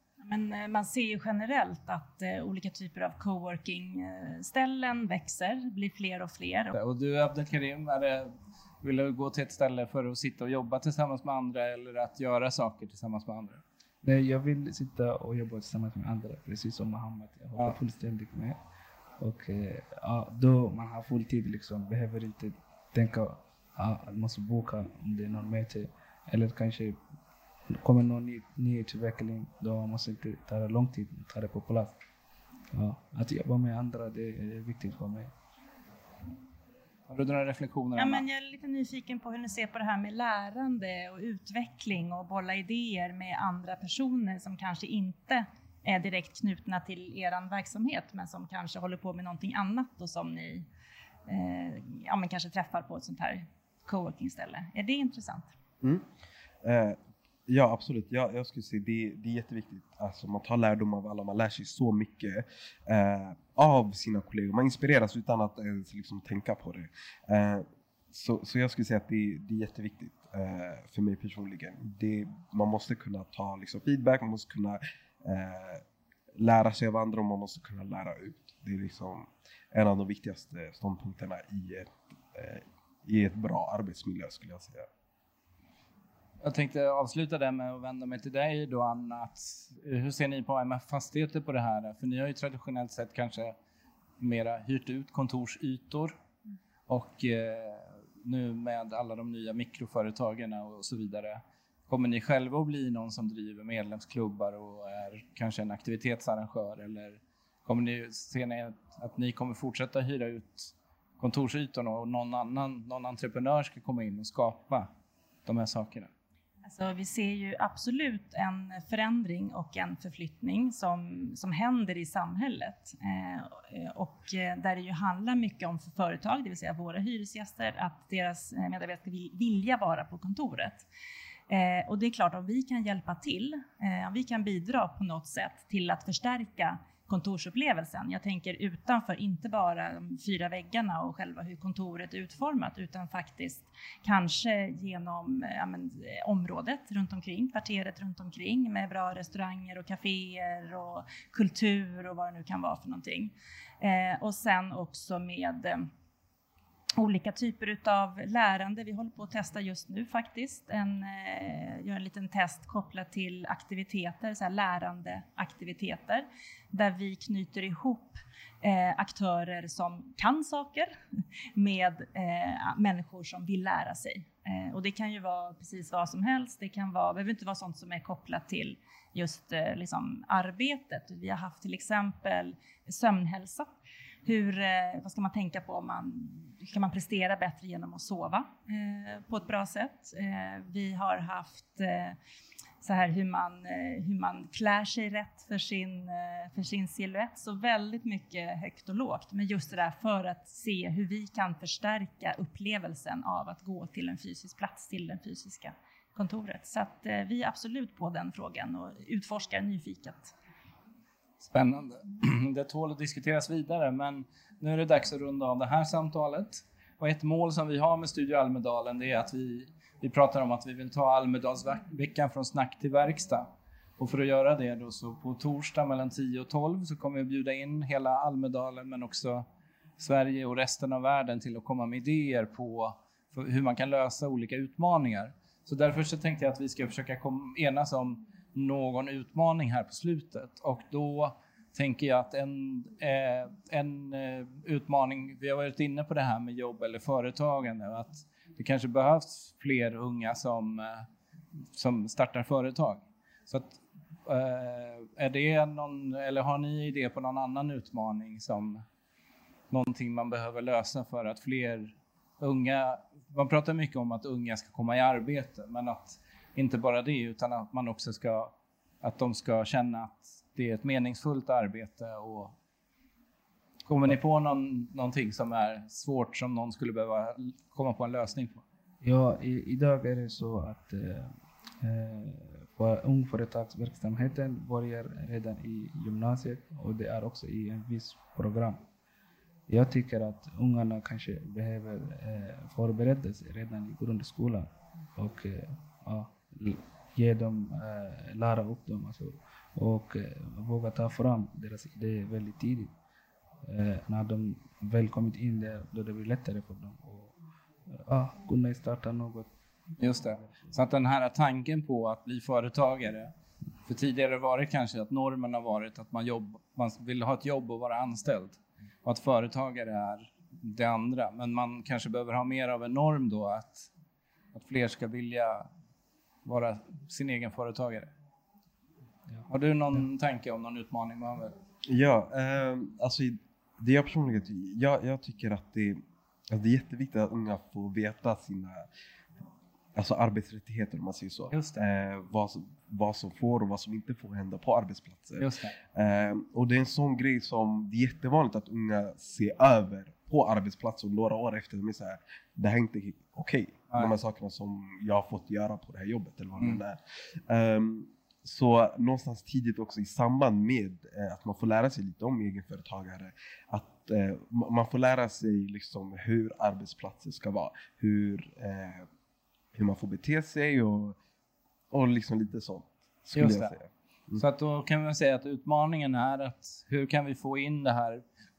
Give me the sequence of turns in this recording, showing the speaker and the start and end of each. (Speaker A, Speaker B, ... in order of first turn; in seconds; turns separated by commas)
Speaker A: 0.2-6.8, Speaker B: 6.7-13.6, Speaker C: 14.0-18.6, Speaker C: 19.2-27.0, Speaker C: 27.7-31.9, Speaker C: 32.7-35.3, Speaker B: 37.1-38.2, Speaker A: 38.0-50.6, Speaker A: 51.3-55.5, Speaker D: 56.6-75.8, Speaker D: 76.4-84.9, Speaker B: 86.4-93.5, Speaker B: 94.2-96.2, Speaker B: 96.9-114.9, Speaker B: 115.5-116.1, Speaker A: 116.6-130.8, Speaker A: 131.5-155.9, Speaker A: 157.0-170.9, Speaker A: 171.5-183.7, Speaker A: 184.2-192.2, Speaker A: 192.8-210.3, Speaker B: 211.4-223.4, Speaker B: 224.0-229.4, Speaker B: 230.0-251.1, Speaker B: 251.7-258.8, Speaker B: 259.7-272.6, Speaker B: 273.9-278.6, Speaker C: 279.0-288.8, Speaker C: 289.7-302.9, Speaker C: 303.6-307.3, Speaker C: 307.9-309.5, Speaker B: 310.0-313.3, Speaker B: 313.9-323.9, Speaker B: 324.5-325.7, Speaker B: 326.4-328.1, Speaker B: 329.5-331.6, Speaker D: 331.9-338.9, Speaker D: 339.9-369.1, Speaker B: 341.5-341.8, Speaker B: 345.4-345.7, Speaker D: 369.7-371.2, Speaker D: 371.9-374.4, Speaker B: 373.3-373.7, Speaker B: 374.4-378.2